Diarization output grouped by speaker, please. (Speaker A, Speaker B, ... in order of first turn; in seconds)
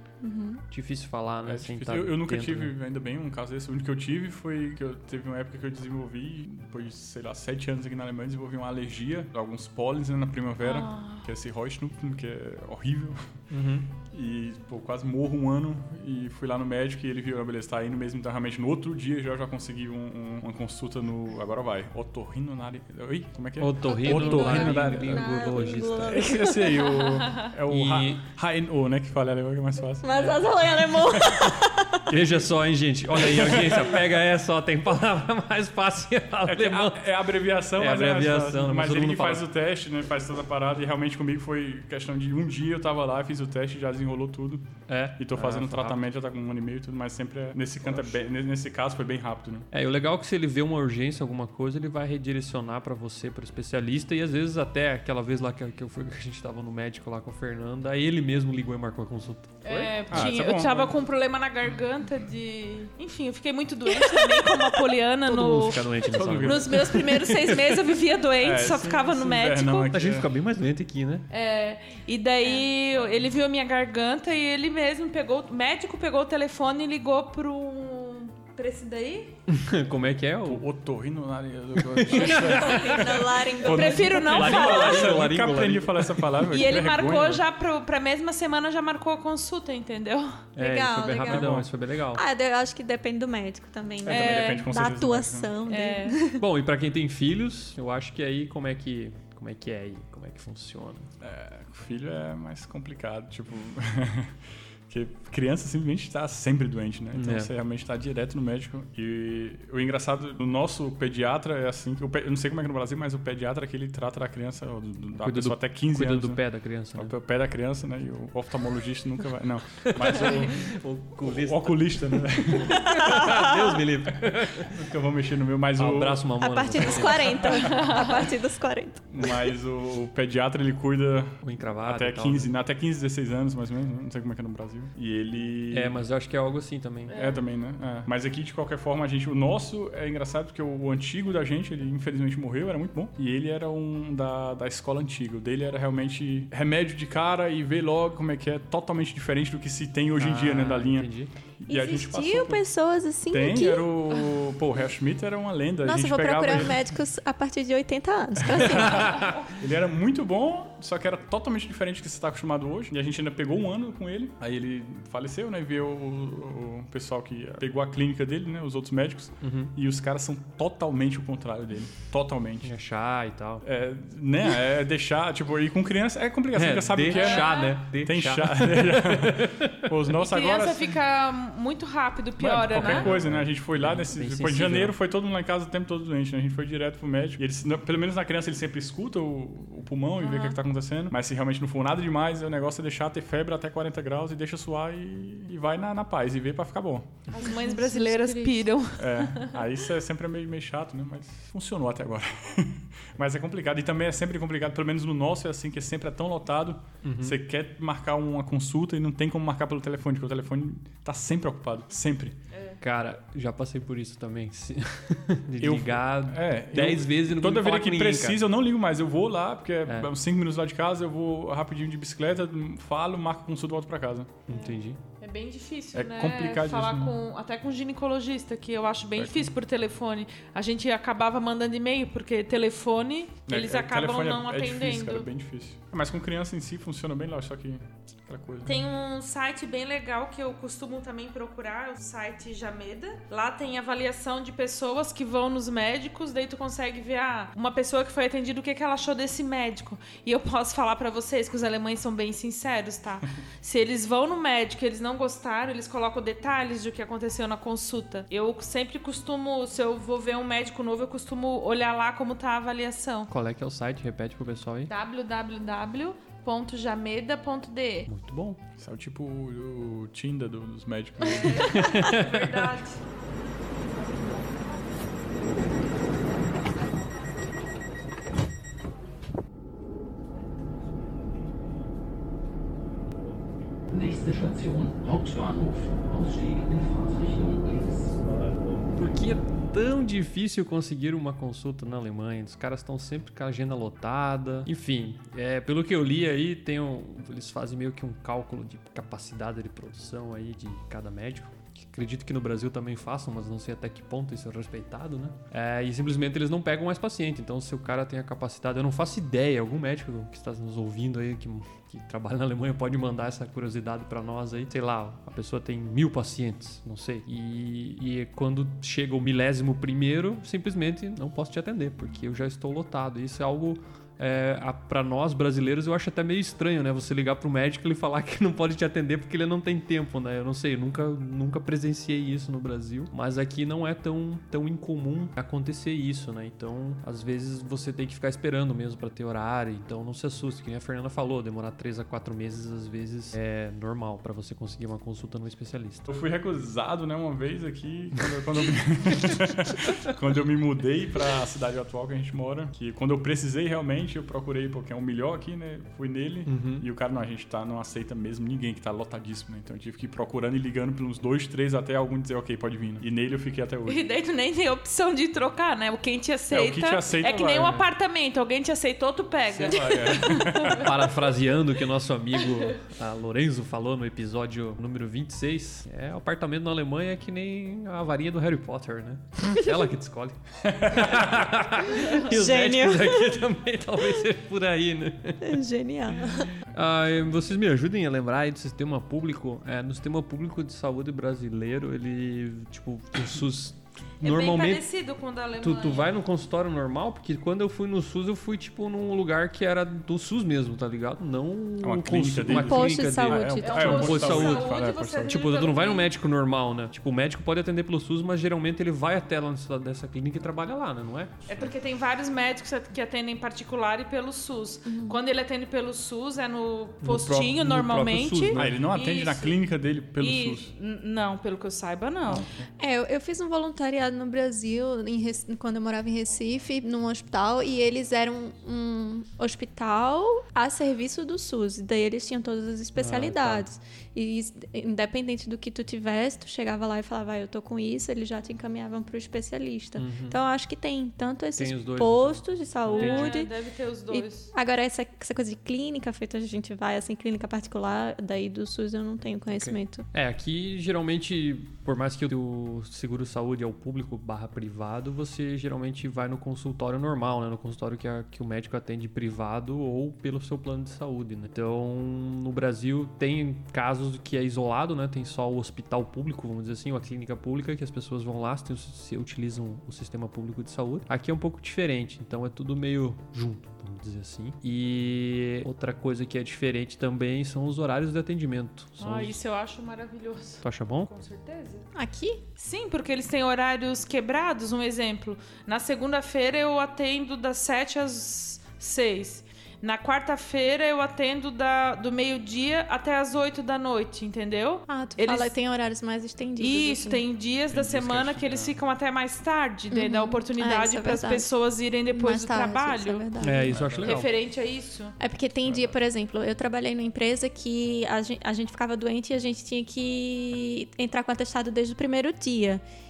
Speaker A: 0.2-0.6, 23.9-27.0, 30.0-32.1, 82.2-84.3, 90.6-91.6, 92.1-96.4, 123.0-123.4, 126.4-129.5, 151.7-153.9, 155.8-159.2, 197.4-198.7, 382.1-383.4, 385.4-386.5, 402.5-404.4, 414.9-415.2, 422.8-443.5, 444.1-450.1, 481.9-482.4, 494.9-497.2, 499.9-501.5, 502.1-503.8, 505.2-512.8
Speaker B: 0.7-2.7, 13.5-13.9, 23.6-26.3, 27.7-28.2, 32.1-37.1, 37.8-39.4, 44.9-46.0, 47.8-48.2, 49.7-60.3, 65.2-67.8, 69.9-71.2, 79.5-80.6, 81.8-83.0, 84.2-86.4, 90.5-92.2, 96.4-101.1, 107.1-107.5, 115.2-117.1, 119.8-124.8, 125.8-127.6, 131.4-132.5, 135.7-137.2, 150.2-151.3, 169.4-169.7, 172.6-173.6, 176.5-179.9, 182.7-184.9, 207.0-207.4, 212.8-218.4, 219.8-220.1, 224.5-225.0, 263.3-264.9, 268.1-268.6, 271.6-272.7, 288.9-346.1, 356.5-356.9, 370.6-385.6, 386.7-394.8, 395.6-411.7, 417.0-418.8, 432.9-433.7, 440.0-440.4, 441.6-443.3, 449.5-479.4, 480.6-481.1, 503.4-504.3
Speaker C: 1.4-13.4, 13.9-30.4, 30.9-31.4, 33.1-34.1, 36.5-49.7, 60.1-61.0, 66.0-67.0, 68.4-70.3, 80.5-87.4, 91.2-91.7, 94.0-95.5, 101.2-116.4, 117.0-120.7, 121.3-123.2, 124.6-126.2, 129.1-136.0, 137.1-152.6, 153.3-156.8, 158.5-172.7, 173.6-180.9, 182.4-197.1, 198.9-212.3, 215.6-224.3, 225.9-227.1, 229.2-229.5, 233.5-238.8, 268.8-271.9, 346.1-364.0, 366.5-367.8, 369.5-370.9, 380.6-381.4, 401.8-405.4, 418.5-420.7, 422.3-422.6, 497.7-498.7, 503.6-504.2, 505.6-505.9
Speaker D: 10.6-11.3, 59.6-65.8, 66.4-69.9, 71.3-79.3, 83.6-85.2, 86.5-90.5, 94.1-94.6, 95.7-96.2, 127.6-128.1, 137.1-137.4, 159.1-159.5, 177.1-177.7, 180.2-183.1, 190.2-190.6, 197.3-199.6, 224.5-235.3, 238.6-263.3, 264.9-268.1, 271.2-273.0, 363.9-370.9, 394.2-396.1, 403.6-406.1, 411.5-419.6, 420.2-422.5, 442.9-444.5, 479.0-481.9, 482.6-495.5, 496.6-503.3, 504.0-505.1
Speaker E: 283.9-288.6